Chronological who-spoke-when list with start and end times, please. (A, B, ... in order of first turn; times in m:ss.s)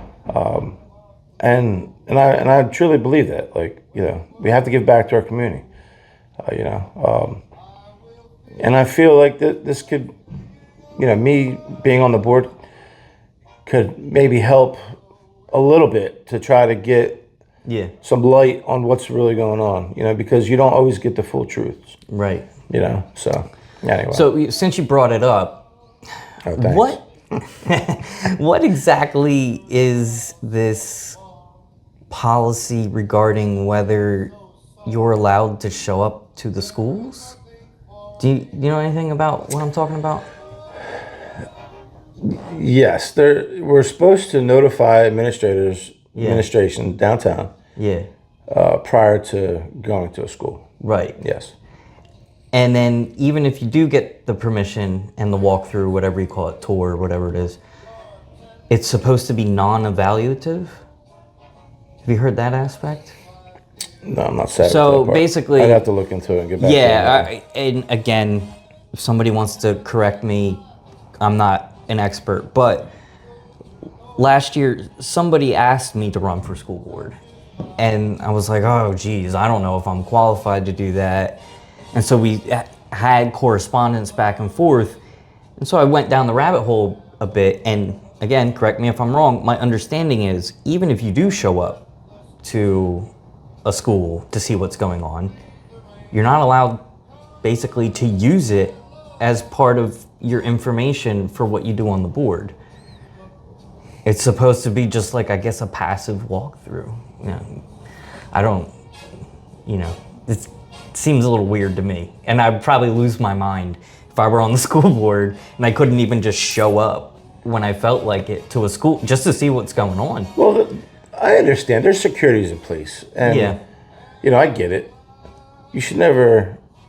0:00.3-0:00.8 A
0:01.4-0:05.6 A
0:06.4-0:07.4 A
0:08.6-0:10.1 A
0:11.0-0:12.5 A
0:13.6-0:14.9 A
0:15.5-0:17.2 A
0:17.6-0:17.9 B
0:18.0-0:22.0 A
0:22.1-0:22.5 B
0:22.7-0:24.2 A
0:24.1-0:25.6 B
0:26.4-0:27.4 A
0:26.6-0:31.2 B
0:32.1-0:34.3 B
0:34.8-0:37.4 B
0:38.2-0:40.2 B
0:42.2-0:47.5 A
0:46.1-0:46.4 B
0:47.8-0:48.1 B
0:48.5-0:50.6 A
0:50.8-0:51.2 B
0:51.2-0:51.5 A
0:52.5-0:57.6 B
0:58.7-1:00.8 B
1:02.0-1:03.2 B
1:04.0-1:07.3 A
1:04.6-1:05.8 B
1:06.6-1:10.6 B
1:11.2-1:12.9 B
1:14.2-1:17.2 B
1:17.8-1:21.4 B
1:21.9-1:25.0 B
1:25.6-1:31.8 B
1:32.4-1:33.1 B
1:33.6-1:35.3 B
1:36.1-1:36.8 B
1:37.4-1:42.5 B
1:44.0-1:47.6 B
1:48.3-1:48.7 B
1:49.6-2:00.3 B
2:00.4-2:03.6 A
2:03.2-2:03.6 B
2:04.2-2:04.9 A
2:05.7-2:06.6 A